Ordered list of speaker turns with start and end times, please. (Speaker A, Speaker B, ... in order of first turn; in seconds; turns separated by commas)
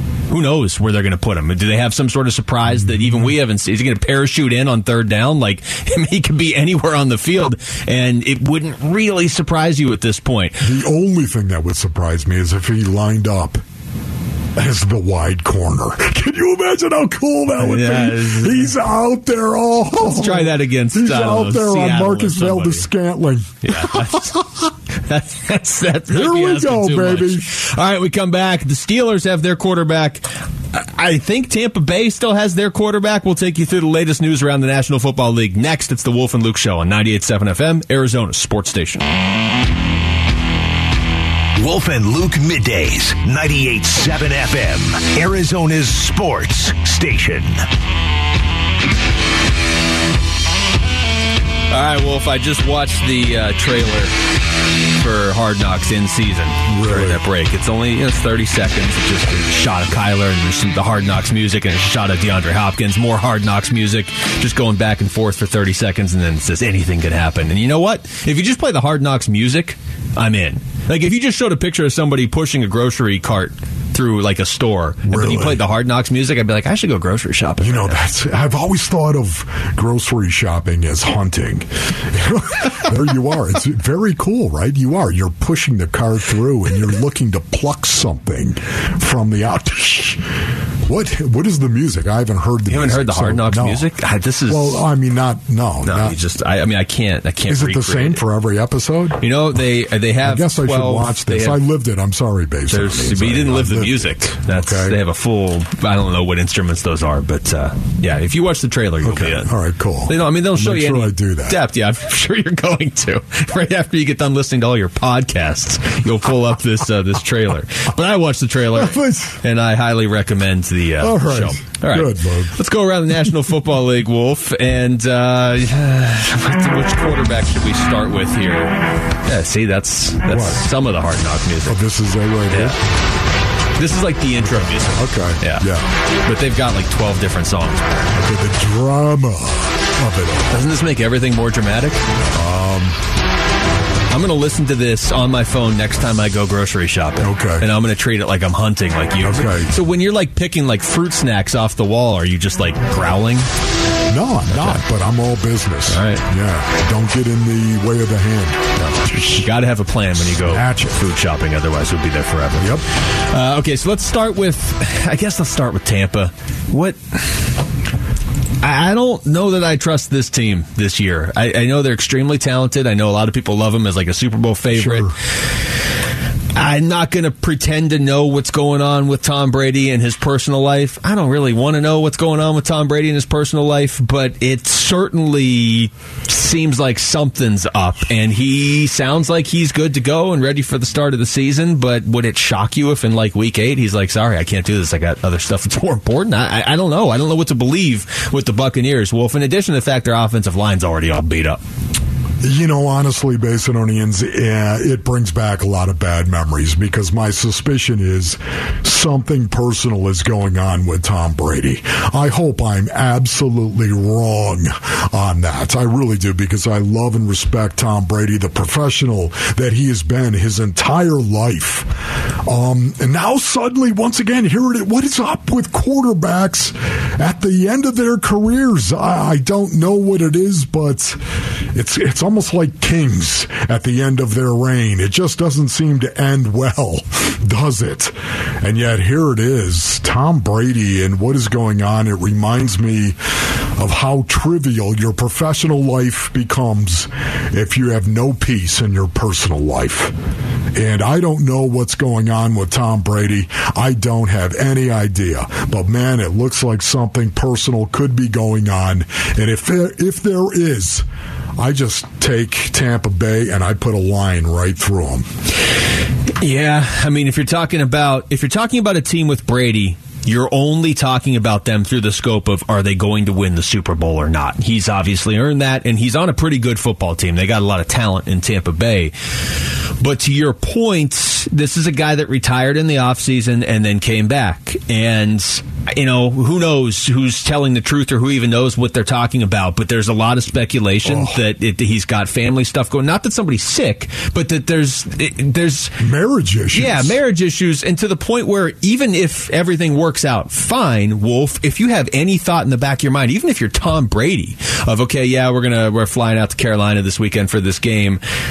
Speaker A: 0.3-10.6, Speaker B: 2.7-3.3, Speaker B: 10.6-13.6, Speaker B: 14.6-24.7, Speaker A: 17.6-18.7, Speaker A: 20.0-22.9, Speaker A: 23.6-24.3, Speaker A: 25.0-39.0, Speaker B: 26.1-27.5, Speaker C: 41.6-47.6, Speaker A: 51.7-54.1, Speaker A: 55.0-78.0, Speaker B: 56.7-57.2, Speaker B: 75.0-75.6, Speaker B: 77.6-90.2, Speaker B: 90.8-93.9, Speaker A: 92.7-94.8, Speaker B: 94.5-96.2, Speaker A: 95.8-98.2, Speaker B: 97.5-99.2, Speaker A: 99.2-101.6, Speaker B: 100.2-105.0, Speaker A: 102.7-109.5, Speaker B: 109.0-111.6, Speaker A: 110.1-131.8, Speaker B: 118.7-119.4, Speaker B: 121.0-122.6, Speaker B: 130.3-130.6, Speaker B: 131.6-132.8, Speaker A: 132.5-132.8, Speaker A: 133.8-135.6, Speaker B: 134.4-135.8, Speaker A: 136.2-138.1, Speaker B: 138.1-140.6, Speaker A: 140.5-142.0, Speaker B: 142.3-143.0, Speaker A: 144.1-153.5, Speaker B: 147.2-147.7, Speaker B: 149.2-149.8, Speaker B: 154.1-159.4, Speaker A: 154.5-154.8, Speaker A: 155.9-156.2, Speaker A: 158.8-167.4, Speaker B: 160.2-161.0, Speaker B: 162.6-162.8, Speaker A: 168.6-175.1, Speaker B: 174.7-175.1, Speaker A: 176.5-201.6, Speaker B: 202.4-221.9, Speaker B: 222.4-231.2, Speaker B: 231.7-250.1, Speaker B: 250.7-261.1, Speaker B: 261.6-265.3, Speaker A: 266.4-279.1, Speaker A: 280.0-296.0, Speaker B: 291.0-291.4, Speaker B: 296.0-297.2, Speaker A: 296.7-308.2